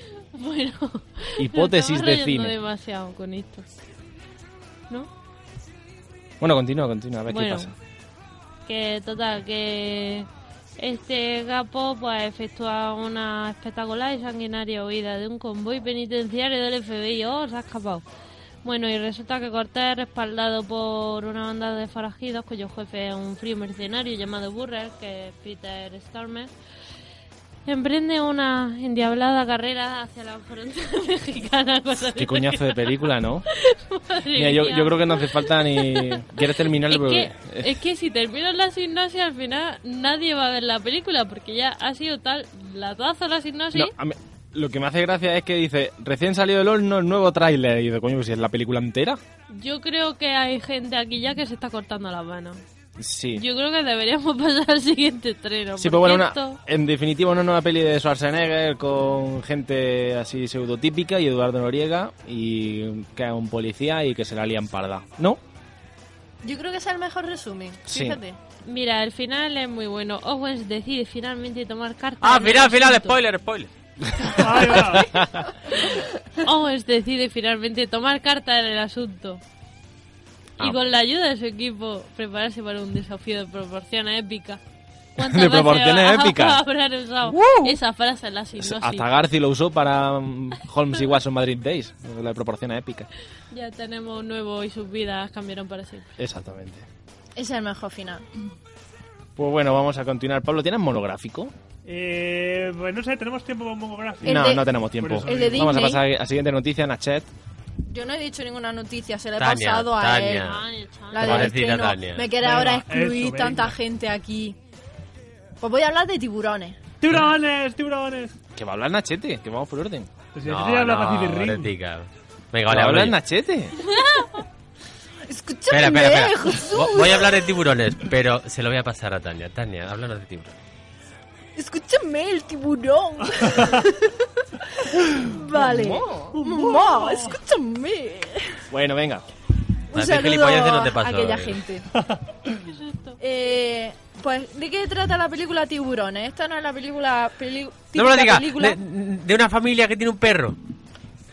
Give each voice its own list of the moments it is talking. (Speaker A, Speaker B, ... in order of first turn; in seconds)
Speaker A: 0.3-3.6, 7.3-7.7, 8.7-18.0, 18.6-26.5, 27.7-43.9, 49.5-52.6, 53.4-56.6, 68.7-73.2, 75.7-79.4, 80.6-84.6, 85.2-89.1, 93.5-96.1, 110.4-111.4, 142.7-143.2
Speaker B: 1.4-2.6, 6.4-7.7, 32.1-33.5, 34.3-37.8, 43.7-49.2, 53.0-53.5, 55.8-65.4, 67.9-68.2, 74.9-75.4, 85.2-86.6, 87.3-87.7, 88.6-93.1, 96.2-96.9, 99.4-101.5, 104.2-107.3, 118.6-120.1, 122.7-123.8, 138.7-139.2
Speaker C: 66.4-68.4, 97.4-98.2, 104.2-104.7, 105.2-106.0, 107.9-110.6, 111.1-114.6, 115.6-116.8, 125.3-127.5, 131.6-138.6, 139.9-141.9, 143.2-148.8
Speaker D: 72.2-73.7, 109.4-112.3, 120.5-123.2, 125.7-130.5, 139.9-141.6, 147.9-150.6
Speaker E: 74.3-75.2, 101.8-105.9, 112.4-113.8, 117.0-118.4, 120.3-121.7, 135.5-137.4, 141.9-142.6